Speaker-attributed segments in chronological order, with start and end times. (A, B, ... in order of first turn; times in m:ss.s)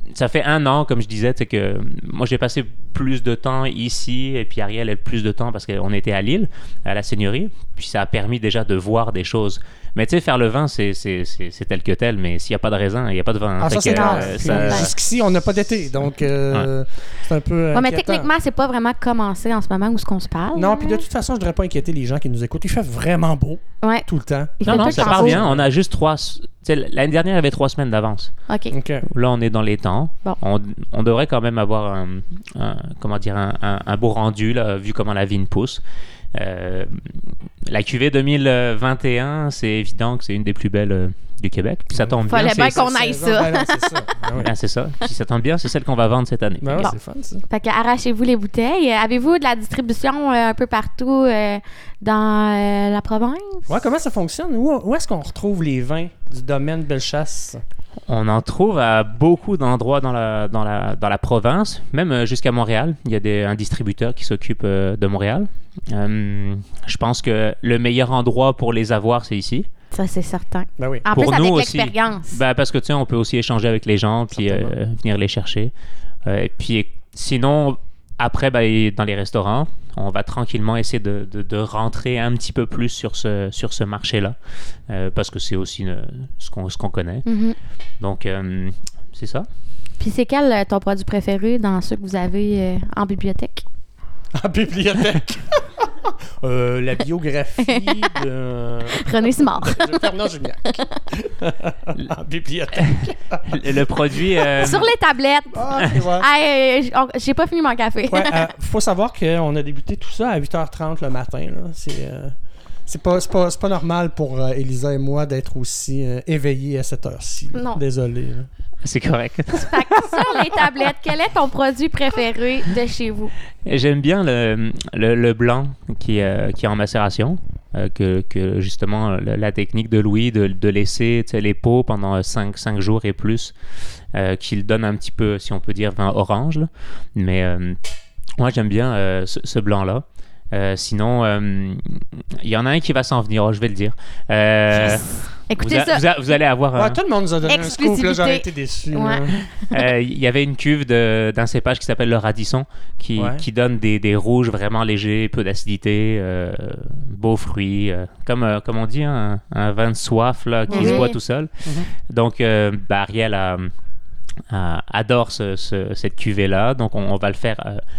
0:00.1-0:14.9 A
0:13.6-0:18.3 B
0:13.8-0:14.9 C
0:17.7-0:21.0 C
0:20.5-0:25.7 B
0:24.6-0:25.4 C
0:24.7-0:28.3 A
0:28.5-0:28.8 C
0:28.7-0:29.1 B
0:29.1-0:35.8 A
0:36.3-0:42.9 A
0:41.9-0:44.5 B
0:42.3-0:43.8 C
0:44.4-0:46.9 A
0:46.6-0:47.4 B
0:47.5-0:53.7 C
0:53.7-0:57.6 B
0:58.1-1:09.7 A
1:09.9-1:12.4 C
1:10.8-1:11.1 B
1:11.1-1:15.7 A
1:14.3-1:14.8 B
1:16.3-1:24.4 A
1:24.9-1:27.3 A
1:27.3-1:27.6 C
1:28.0-1:29.5 A
1:30.0-1:33.6 C
1:34.4-1:43.7 B
1:37.6-1:38.1 C
1:38.9-1:40.0 C
1:42.8-1:44.9 A
1:44.6-1:48.5 C
1:45.5-1:46.3 B
1:48.1-1:52.4 B
1:52.9-1:58.5 B
1:57.5-1:57.8 C
1:58.8-2:00.3 A
1:59.5-2:03.3 C
2:03.7-2:13.5 A
2:14.1-2:17.8 A
2:18.4-2:27.0 A
2:24.8-2:26.0 C
2:26.8-2:29.4 B
2:27.5-2:29.4 C
2:29.7-2:41.5 A
2:33.2-2:33.4 B
2:40.7-2:41.1 B
2:40.7-2:41.2 C
2:42.1-2:43.7 A
2:44.5-2:47.8 A